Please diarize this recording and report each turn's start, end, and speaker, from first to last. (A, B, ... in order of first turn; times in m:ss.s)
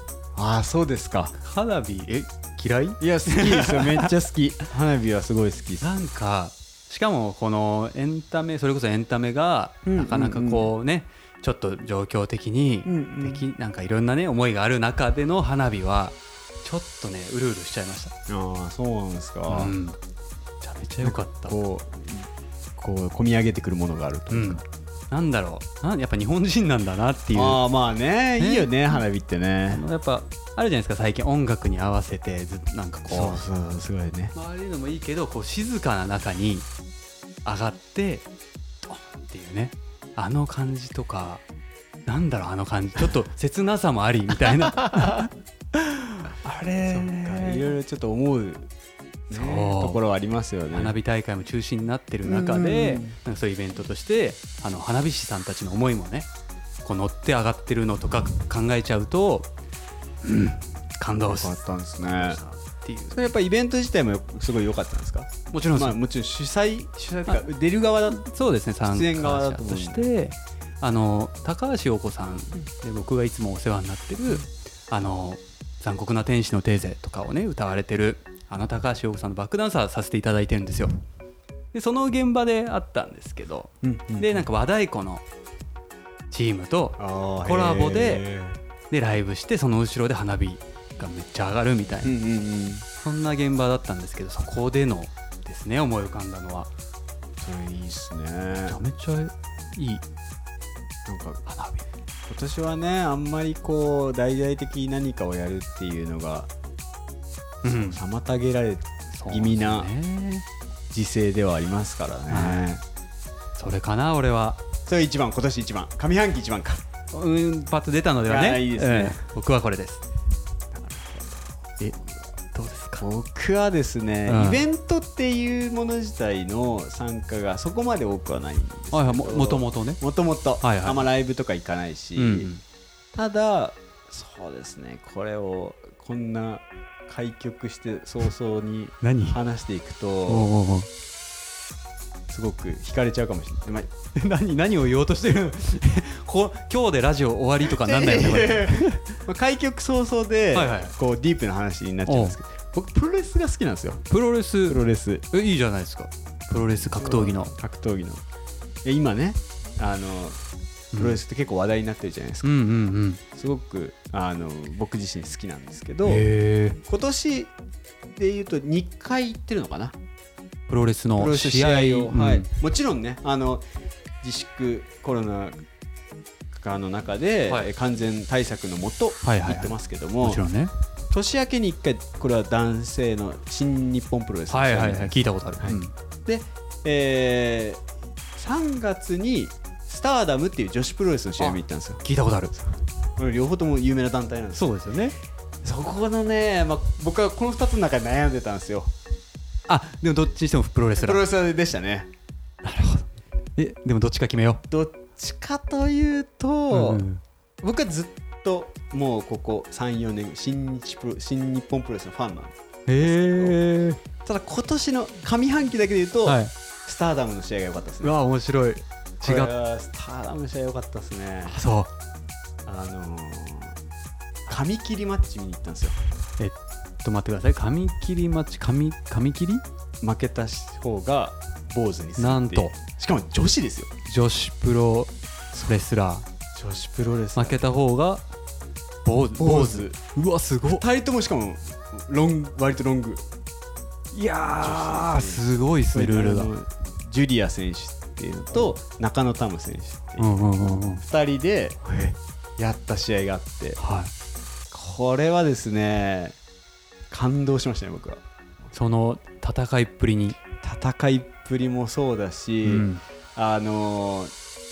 0:00.3-0:01.3 A
0:01.4-0:04.1 B
0:03.0-0:06.1 A
0:05.8-0:18.1 B
0:09.8-0:10.7 A
0:12.8-0:13.4 A
0:18.3-0:19.7 A
0:19.5-0:20.0 B
0:20.6-0:21.6 B
0:21.0-0:24.6 A
0:24.3-0:27.6 B
0:27.3-0:29.8 A
0:28.4-0:29.0 B
0:29.7-0:33.4 B
0:33.1-0:34.3 A
0:34.3-0:36.7 B
0:37.4-0:38.3 B
0:38.9-0:41.4 B
0:42.1-0:47.7 B
0:46.8-0:48.7 A
0:49.3-0:51.0 A
0:49.3-0:50.0 B
0:50.7-0:56.3 B
0:52.2-0:53.2 A
0:56.8-0:59.5 B
1:00.2-1:03.3 B
1:01.2-1:02.4 A
1:03.1-1:08.2 A
1:05.5-1:06.0 B
1:08.1-1:20.9 B
1:08.8-1:10.1 A
1:21.7-1:25.2 B
1:23.8-1:24.5 A
1:26.3-1:28.2 B
1:27.0-1:28.6 A
1:28.9-1:32.1 B
1:32.0-1:32.9 A
1:33.0-1:36.7 B
1:37.4-1:38.8 A
1:38.6-1:40.0 B
1:41.1-1:41.4 A
1:41.4-1:41.8 B
1:42.3-1:46.5 A
1:47.6-1:48.0 B
1:47.6-1:49.9 A
1:49.1-1:50.4 B
1:50.9-1:52.8 A
1:52.3-1:52.7 B
1:53.6-1:54.6 B
1:54.9-1:56.8 A
1:57.1-2:00.0 B
1:58.2-1:59.2 A
2:00.7-2:01.9 A
2:02.5-2:03.0 B
2:03.0-2:12.5 A
2:04.2-2:04.6 B
2:08.9-2:10.0 B
2:10.6-2:11.0 B
2:12.1-2:12.6 B
2:13.1-2:20.5 A
2:19.0-2:19.4 B
2:20.3-2:20.9 B
2:22.3-2:23.9 A
2:24.2-2:29.0 B
2:27.6-2:34.0 A
2:30.5-2:30.9 B
2:32.1-2:32.4 B
2:34.1-2:37.5 B
2:34.6-2:35.2 A
2:36.8-2:38.2 A
2:38.8-2:40.4 A
2:40.9-2:41.2 B
2:40.9-2:42.5 A
2:42.4-2:43.2 B
2:43.3-2:46.3 A
2:46.0-2:46.8 B
2:46.9-2:47.5 A
2:48.1-2:49.9 A
2:50.7-2:52.5 B
2:51.2-2:53.6 A
2:54.2-2:55.6 A
2:56.5-3:00.4 A
2:59.2-3:00.7 B
3:01.1-3:07.8 A
3:04.5-3:05.9 B
3:08.4-3:12.0 A
3:11.4-3:12.6 B
3:13.2-3:14.7 A
3:14.5-3:15.2 B
3:15.6-3:18.9 A
3:19.7-3:21.2 B
3:21.0-3:22.1 A
3:22.6-3:24.6 B
3:24.7-3:27.0 A
3:26.7-3:27.2 B
3:27.6-3:33.6 A
3:32.9-3:34.0 B
3:34.2-3:38.1 A
3:36.2-3:36.5 B
3:38.0-3:39.5 B
3:39.2-3:41.6 A
3:41.4-3:41.9 B
3:42.6-3:43.8 A
3:44.5-3:46.0 A
3:46.4-3:49.6 B
3:50.0-3:53.9 A
3:52.2-3:52.7 B
3:54.1-3:56.2 B
3:56.6-3:57.6 A
3:57.4-3:58.2 B
3:59.0-4:00.8 B
3:59.4-4:00.0 A
4:00.6-4:03.2 A
4:04.1-4:06.5 B
4:04.6-4:11.8 A
4:10.2-4:11.0 B
4:11.9-4:12.2 B
4:12.6-4:13.8 A
4:13.8-4:14.1 B
4:14.7-4:16.4 A
4:17.1-4:18.2 A
4:18.7-4:20.4 B
4:20.6-4:24.3 A
4:22.6-4:23.0 B